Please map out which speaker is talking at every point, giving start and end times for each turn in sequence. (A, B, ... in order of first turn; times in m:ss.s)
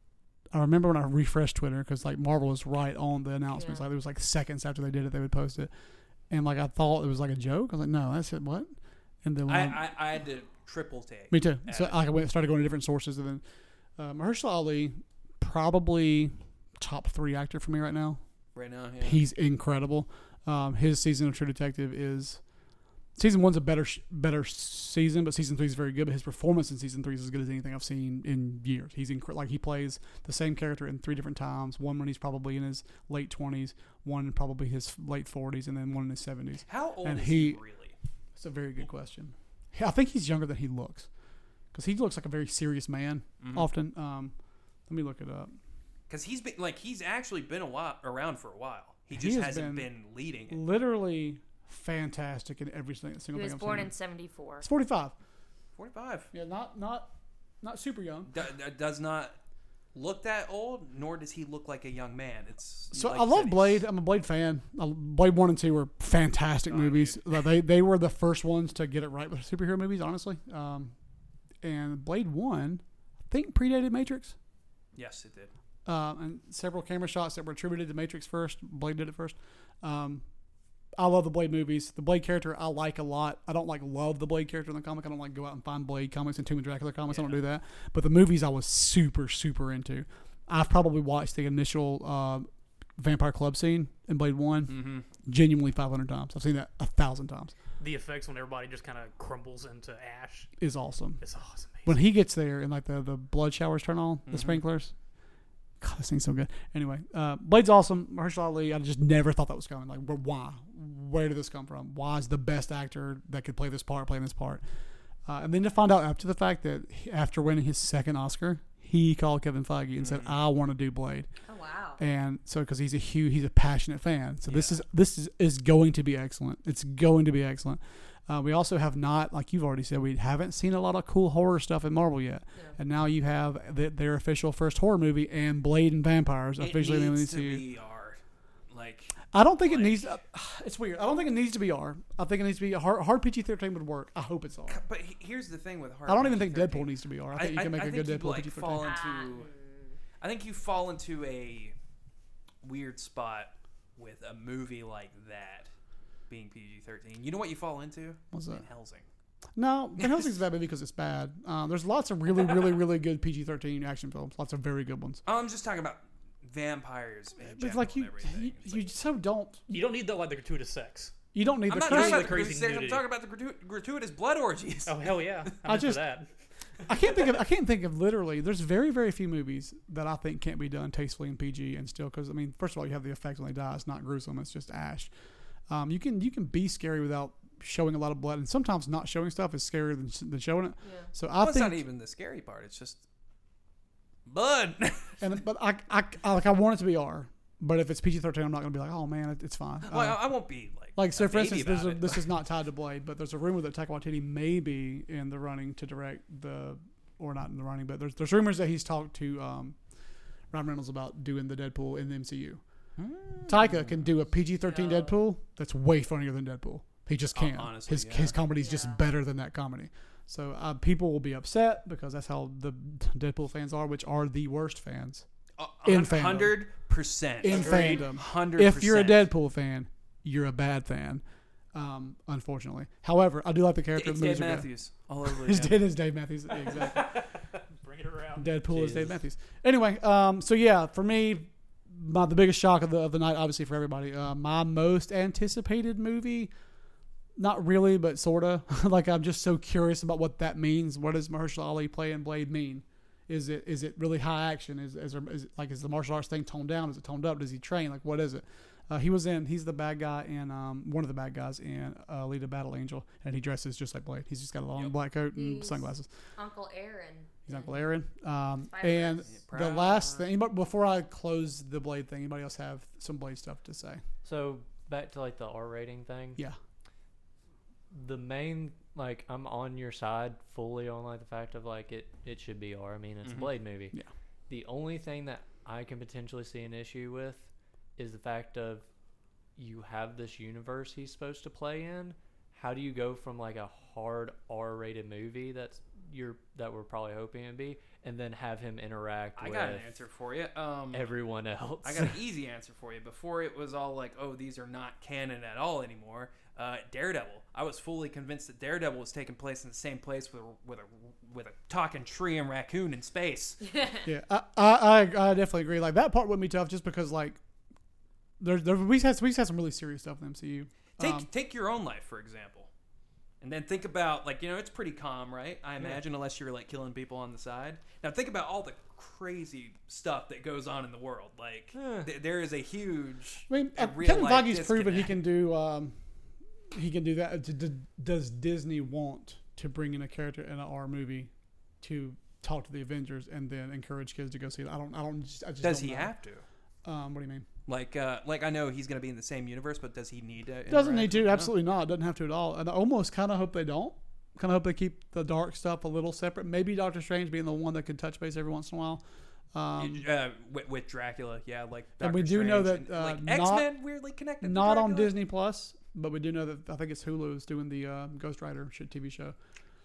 0:00.5-0:05.7 A
0:03.6-0:03.8 B
0:06.3-0:08.7 A
0:09.2-0:09.9 A
0:09.5-0:12.0 C
0:11.3-0:13.4 A
0:14.0-0:18.2 A
0:18.6-0:19.2 C
0:19.0-0:22.4 A
0:23.2-0:37.6 A
0:36.7-0:38.0 C
0:38.4-0:41.1 A
0:41.7-0:44.4 A
0:43.4-0:43.7 C
0:44.9-0:45.6 A
0:46.1-0:50.6 C
0:49.1-0:49.9 A
0:50.5-0:53.9 A
0:53.3-0:54.7 B
0:54.6-0:55.1 A
0:55.8-0:56.3 C
0:56.3-0:58.3 A
0:58.3-0:59.4 C
0:59.9-1:03.8 C
1:02.9-1:10.9 A
1:06.7-1:07.4 C
1:11.6-1:14.4 A
1:15.0-1:15.5 C
1:15.9-1:20.2 A
1:21.0-1:37.5 A
1:27.1-1:27.4 C
1:34.7-1:35.1 C
1:37.8-1:40.5 D
1:40.6-1:41.2 A
1:41.2-1:42.0 D
1:41.9-1:44.9 A
1:44.3-1:44.6 C
1:45.8-1:54.6 A
1:55.3-2:01.3 A
2:00.0-2:00.3 C
2:01.5-2:02.0 B
2:02.0-2:17.6 A
2:04.5-2:04.8 C
2:16.6-2:20.1 C
2:19.3-2:24.8 A
2:24.7-2:29.5 C
2:26.1-2:29.0 A
2:28.8-2:30.0 B
2:30.2-2:31.8 C
2:32.6-2:35.7 C
2:36.3-2:39.1 C
2:38.3-2:38.6 A
2:39.6-2:45.2 A
2:45.3-2:48.9 C
2:47.4-2:49.7 A
2:49.7-2:51.2 D
2:51.3-2:52.5 A
2:51.7-2:55.2 C
2:51.8-2:53.0 D
2:54.9-2:56.3 D
2:55.6-2:56.0 A
2:56.9-3:05.1 A
3:05.7-3:11.8 A
3:10.8-3:11.1 B
3:11.4-3:13.0 C
3:14.3-3:15.2 C
3:15.2-3:20.2 A
3:19.8-3:22.3 C
3:21.0-3:29.8 A
3:30.5-3:32.6 A
3:33.0-3:34.1 C
3:33.5-3:45.3 A
3:34.6-3:35.2 B
3:37.3-3:38.4 C
3:38.6-3:39.0 B
3:45.6-3:49.3 C
3:45.8-3:46.6 A
3:47.4-3:51.2 A
3:47.7-3:48.0 B
3:51.7-3:54.7 A
3:54.0-3:55.8 C
3:55.2-3:57.1 A
3:56.8-3:57.3 D
3:57.8-3:58.5 D
3:58.4-4:06.5 A
3:58.8-3:59.0 C
4:07.4-4:26.1 A
4:25.3-4:27.8 B
4:27.5-4:34.0 A
4:28.7-4:29.3 B
4:29.3-4:30.3 C
4:34.2-4:36.4 E
4:37.9-4:44.0 E
4:44.5-4:48.9 E
4:49.6-5:00.0 E
4:59.4-5:01.1 C
5:00.9-5:02.2 E
5:01.8-5:13.6 C
5:13.6-5:14.1 B
5:14.0-5:17.4 A
5:18.4-5:21.3 A
5:21.0-5:22.7 C
5:23.4-5:35.2 C
5:31.7-5:32.1 E
5:33.5-5:36.0 A
5:36.7-5:46.1 A
5:45.6-5:46.4 C
5:46.8-5:47.5 A
5:47.7-5:51.5 C
5:50.7-6:00.0 A
5:59.8-6:05.2 C
6:02.0-6:03.7 A
6:04.4-6:09.4 A